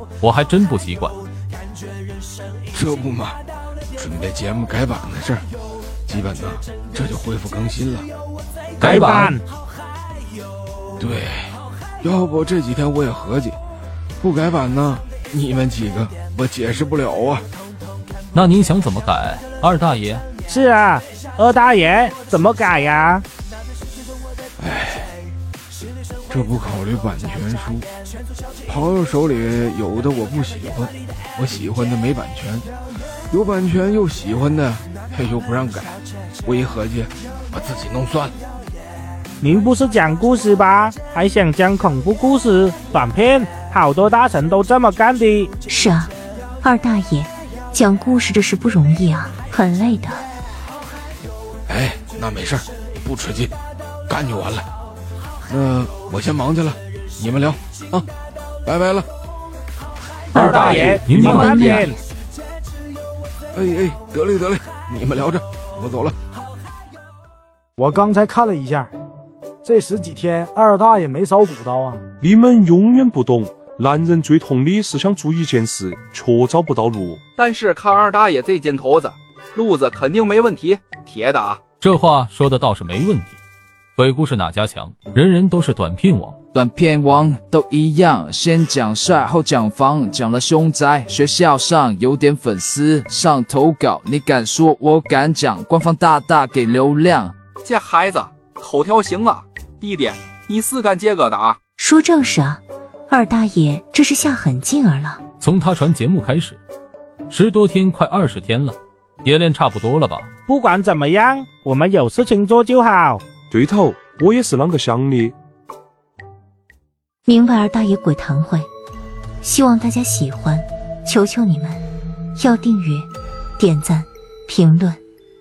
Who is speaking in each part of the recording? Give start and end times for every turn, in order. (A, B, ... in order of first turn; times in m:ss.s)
0:00.2-0:01.2 A
0:02.7-0:03.4 B
0:04.0-0:05.4 B
0:06.1-0:08.1 B
0:08.8-0:09.3 A
0:08.8-0:09.4 C
0:11.0-0:13.6 B
0:14.2-0:17.4 B
0:18.3-0:20.2 A
0:20.5-0:23.2 C
0:24.6-0:25.1 B
0:26.3-0:27.9 B
0:28.7-0:32.7 B
0:33.3-0:38.3 B
0:39.4-0:45.5 C
0:45.7-0:50.2 D
0:51.7-0:53.6 B
0:54.1-0:54.7 B
0:55.5-0:58.0 B
0:58.6-0:59.1 B
1:00.3-1:01.9 A
1:00.3-1:02.0 C
1:03.5-1:06.2 B
1:07.8-1:08.9 E
1:09.6-1:12.0 E
1:12.2-1:17.0 F
1:17.3-1:21.6 G
1:21.8-1:23.4 A
1:24.0-1:26.4 A
1:26.5-1:37.3 H
1:37.6-1:41.6 G
1:41.8-1:45.2 D
1:45.4-1:46.6 A
1:47.3-1:50.3 A
1:50.5-1:53.2 C
1:53.5-1:55.3 F
1:57.2-1:58.7 D
1:59.4-2:01.8 D
2:02.4-2:03.1 D
2:03.6-2:05.0 D